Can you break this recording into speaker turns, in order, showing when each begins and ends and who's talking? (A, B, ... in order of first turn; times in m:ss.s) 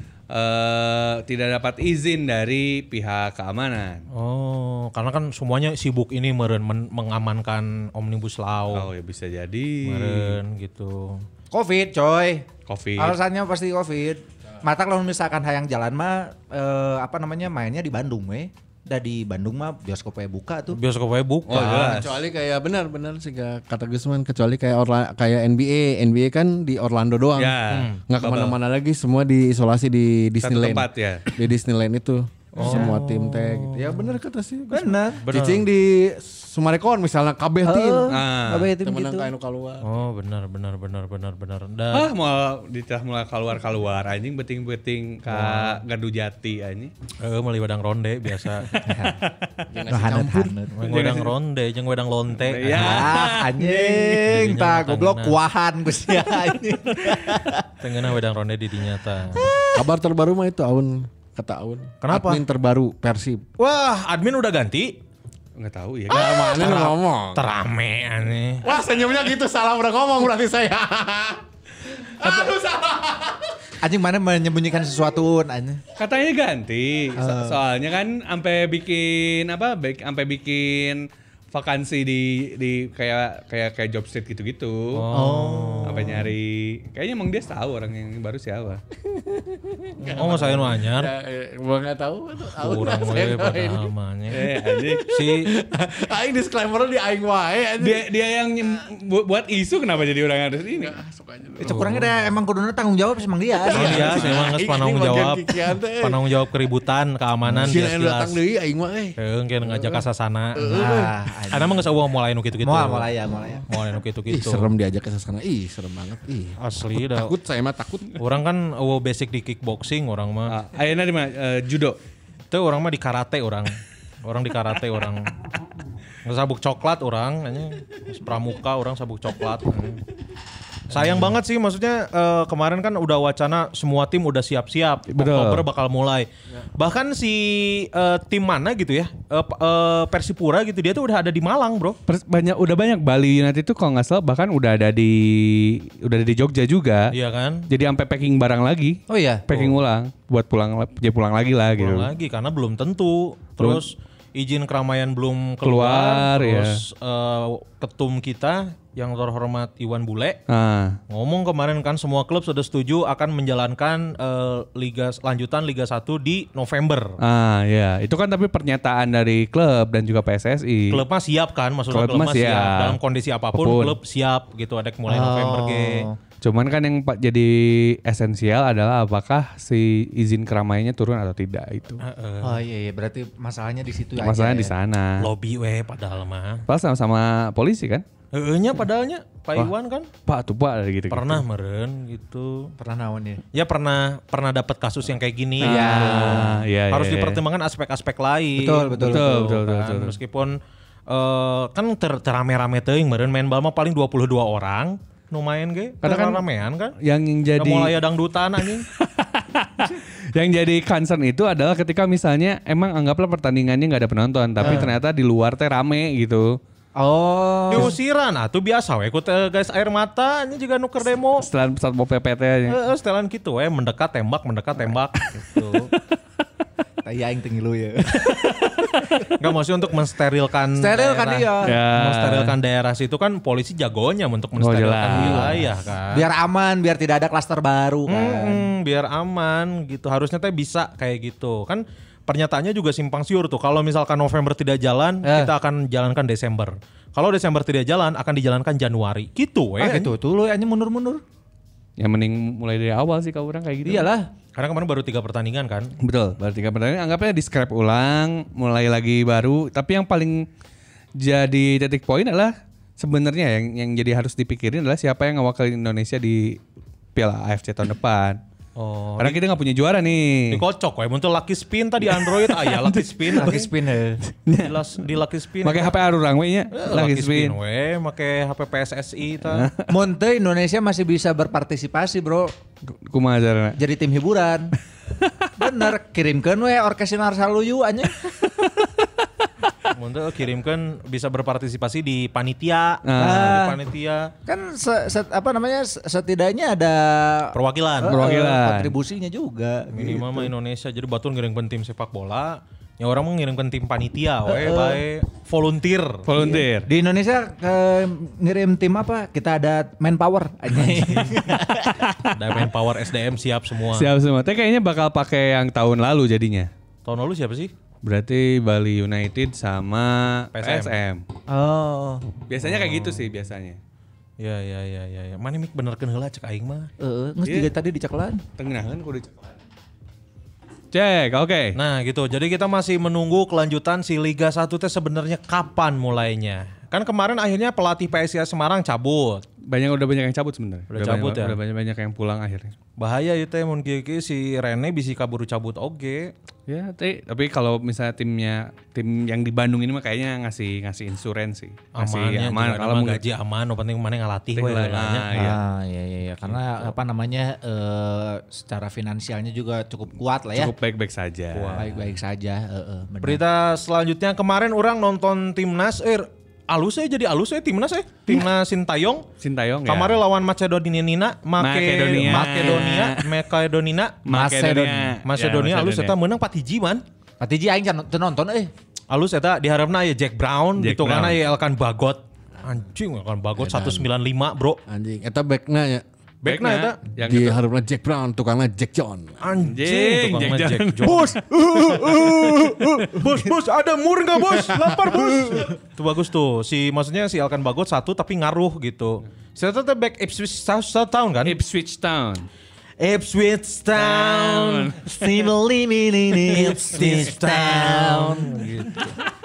0:00.3-0:04.1 A
0:04.1-0:08.9 B
0:08.7-0:10.4 A
0:09.8-0:11.2 B
0:11.5-0:12.5 C
0:12.7-0:13.2 A
0:13.0-0:20.8 C
0:20.7-0:22.0 B
0:21.5-0:22.3 A
0:21.6-0:38.1 D
0:27.4-0:28.6 A
0:27.7-0:28.0 B
0:30.4-0:31.3 A
0:32.6-0:34.2 B
0:34.7-0:35.2 C
0:35.2-0:35.7 B
0:37.6-0:39.3 C
0:38.1-0:38.7 A
0:38.8-0:39.9 D
0:39.8-0:42.1 B
0:41.9-0:46.9 A
0:45.3-0:45.8 B
0:47.2-0:48.7 B
0:48.7-0:49.6 A
0:48.8-0:49.2 C
0:49.7-0:50.6 D
0:49.9-0:50.8 C
0:50.7-0:53.2 B
0:50.9-0:51.3 A
0:52.4-0:54.1 A
0:52.7-0:57.6 C
0:54.1-0:55.4 B
0:57.8-0:59.5 B
0:59.7-1:03.4 D
1:02.0-1:02.4 B
1:03.6-1:05.0 B
1:05.6-1:06.8 A
1:06.1-1:07.4 D
1:06.5-1:08.7 B
1:08.6-1:13.4 D
1:13.8-1:15.8 C
1:16.0-1:25.0 A
1:17.2-1:17.6 C
1:24.9-1:26.3 B
1:25.1-1:26.0 C
1:25.8-1:28.8 A
1:29.1-1:33.9 D
1:30.1-1:31.1 B
1:32.5-1:34.6 B
1:34.3-1:35.1 A
1:34.5-1:38.0 D
1:35.1-1:35.5 B
1:37.8-1:41.0 A
1:40.7-1:42.0 D
1:41.6-1:44.3 C
1:41.6-1:42.1 B
1:43.5-1:46.3 D
1:43.7-1:48.4 B
1:47.5-1:50.0 D
1:49.2-1:50.9 B
1:50.6-1:51.2 D
1:50.7-1:51.9 C
1:51.5-1:53.1 B
1:52.6-1:53.7 C
1:53.7-1:54.7 B
1:54.3-1:58.2 D
1:56.6-1:57.4 B
1:58.2-2:00.6 B
2:00.5-2:02.0 A
2:02.5-2:03.7 B
2:04.2-2:05.3 B
2:06.2-2:10.0 B
2:10.9-2:22.0 B
2:15.1-2:15.7 A
2:22.1-2:27.1 A
2:27.1-2:27.7 B
2:27.7-2:32.1 A
2:29.1-2:29.5 C
2:31.8-2:40.4 B
2:33.6-2:33.9 A
2:35.6-2:36.8 A
2:40.5-2:41.0 A
2:41.1-2:47.2 B
2:47.2-2:51.0 A
2:50.9-2:56.1 B
2:51.9-2:53.0 A
2:53.6-2:54.0 A
2:55.1-2:56.2 C
2:56.4-3:02.0 A
3:02.0-3:02.6 B
3:02.4-3:04.7 C
3:04.2-3:05.3 A
3:05.2-3:06.7 B
3:06.7-3:08.0 A
3:08.3-3:10.1 B
3:10.3-3:11.4 A
3:11.1-3:12.7 B
3:12.8-3:13.4 C
3:13.5-3:27.0 B
3:15.6-3:16.6 C
3:15.6-3:17.4 A
3:18.6-3:19.3 C
3:19.1-3:20.2 A
3:26.0-3:26.4 A
3:27.0-3:27.9 A
3:27.6-3:28.9 B
3:28.6-3:36.6 A
3:34.6-3:34.9 C
3:34.6-3:34.9 B
3:37.0-3:37.9 C
3:37.7-3:41.5 B
3:41.4-3:42.8 A
3:42.7-3:45.9 B
3:45.3-3:46.0 A
3:47.0-3:48.4 C
3:48.1-3:49.2 A
3:49.4-3:56.2 B
3:50.8-3:51.7 C
3:51.6-3:52.6 A
3:54.6-3:55.6 A
3:55.1-3:58.7 C
3:58.1-4:10.1 B
4:05.2-4:05.5 C
4:09.8-4:11.2 C
4:12.0-4:14.1 A
4:13.8-4:14.3 C
4:14.6-4:15.9 B
4:16.0-4:20.4 A
4:21.2-4:26.6 A
4:27.2-4:28.4 A
4:28.8-4:29.4 B
4:29.2-4:30.6 A
4:30.5-4:33.7 B
4:32.1-4:33.6 A
4:33.4-4:34.2 C
4:34.3-4:34.8 A
4:34.6-4:36.0 B
4:35.6-4:37.6 A
4:36.7-4:39.7 B
4:39.5-4:39.9 A
4:39.9-4:42.5 C
4:43.0-4:43.8 A
4:43.8-4:44.7 C
4:45.6-4:48.4 C
4:49.9-4:54.3 B
4:53.0-4:53.7 A
4:53.2-4:53.8 C
4:54.5-5:00.5 C
4:57.5-4:58.2 B
4:58.1-4:58.9 A
4:59.9-5:06.3 B
5:04.5-5:05.0 C
5:06.3-5:06.9 A
5:06.4-5:12.0 C
5:10.7-5:11.4 B
5:12.0-5:12.3 A
5:12.3-5:14.1 B
5:13.9-5:16.7 A
5:17.0-5:17.7 B
5:18.0-5:21.2 A
5:20.5-5:21.0 B
5:21.5-5:22.2 C
5:22.5-5:23.8 A
5:22.6-5:23.2 B
5:24.4-5:26.9 B
5:27.0-5:28.4 C
5:28.6-5:29.5 A
5:30.9-5:31.8 A
5:31.7-5:39.4 B
5:39.6-5:42.7 A
5:40.9-5:41.6 B
5:43.0-5:46.3 B
5:46.7-5:53.2 A
5:52.0-5:55.5 B
5:54.6-5:55.6 A
5:55.3-6:00.7 C
6:00.5-6:01.8 A
6:01.5-6:02.2 B
6:01.8-6:03.4 C
6:03.2-6:09.3 B
6:09.4-6:10.2 A
6:09.9-6:14.2 B
6:11.6-6:13.3 A
6:14.2-6:16.2 A
6:14.3-6:15.2 C
6:15.2-6:17.0 B
6:17.4-6:18.7 C
6:19.1-6:24.8 B
6:20.8-6:21.4 A
6:23.7-6:24.0 C
6:24.9-6:26.0 D
6:26.4-6:27.0 B
6:26.5-6:27.6 A
6:27.2-6:29.4 D
6:29.4-6:41.6 B
6:29.7-6:33.1 A
6:31.8-6:32.0 C
6:41.4-6:42.5 A
6:43.0-6:45.0 B
6:44.0-6:45.5 A
6:45.0-6:49.1 C
6:46.5-6:49.0 B